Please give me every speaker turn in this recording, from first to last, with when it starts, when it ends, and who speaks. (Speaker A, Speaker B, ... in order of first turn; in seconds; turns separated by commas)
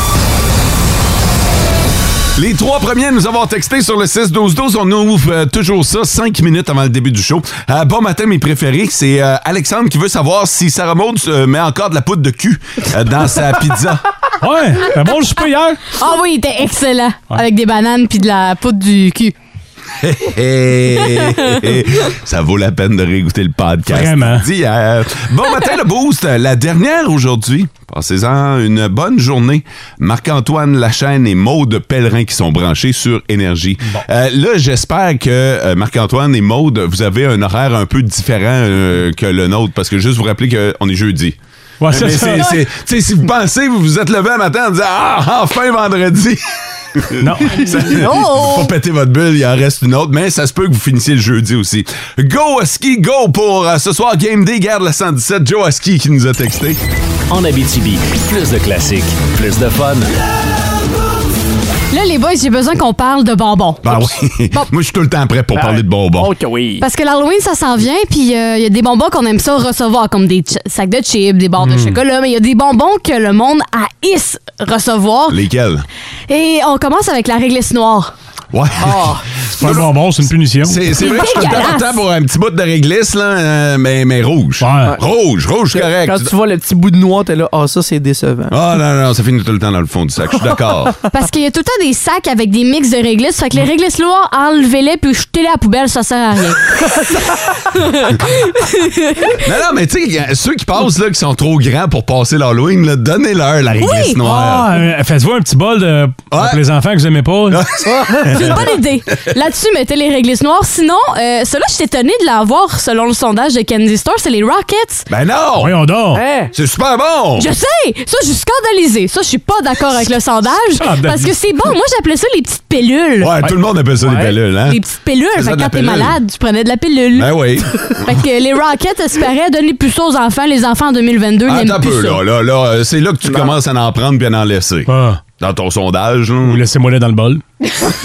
Speaker A: 2.4-14.0, Speaker B: 14.4-15.8, Speaker C: 15.9-19.3, Speaker A: 20.0-41.4, Speaker B: 23.9-24.4, Speaker B: 41.8-42.6, Speaker A: 41.9-56.8, Speaker B: 47.2-47.6, Speaker C: 47.6-48.7, Speaker D: 57.3-60.1, Speaker C: 61.9-64.7, Speaker A: 63.8-66.3, Speaker E: 65.5-66.8, Speaker C: 66.8-75.4, Speaker B: 71.6-72.0, Speaker A: 75.3-75.8, Speaker C: 76.3-78.1, Speaker A: 78.5-86.3, Speaker E: 78.8-79.2, Speaker B: 79.5-81.0, Speaker C: 81.0-82.0, Speaker B: 84.6-85.0, Speaker E: 85.7-88.5, Speaker A: 88.5-90.9, Speaker C: 91.1-99.4, Speaker A: 99.4-104.8, Speaker C: 103.8-104.2, Speaker B: 104.2-107.6, Speaker A: 106.3-106.6, Speaker A: 107.5-108.7, Speaker E: 107.9-108.2, Speaker C: 108.3-115.0, Speaker A: 115.1-115.8, Speaker B: 115.6-116.2, Speaker E: 116.1-116.5, Speaker A: 116.5-117.5, Speaker C: 117.4-123.3, Speaker B: 120.8-121.3, Speaker A: 123.2-124.8, Speaker E: 124.0-124.3, Speaker C: 124.7-132.2, Speaker A: 125.3-126.2, Speaker A: 127.1-128.2, Speaker A: 131.4-136.6, Speaker B: 134.9-135.2, Speaker B: 136.4-137.4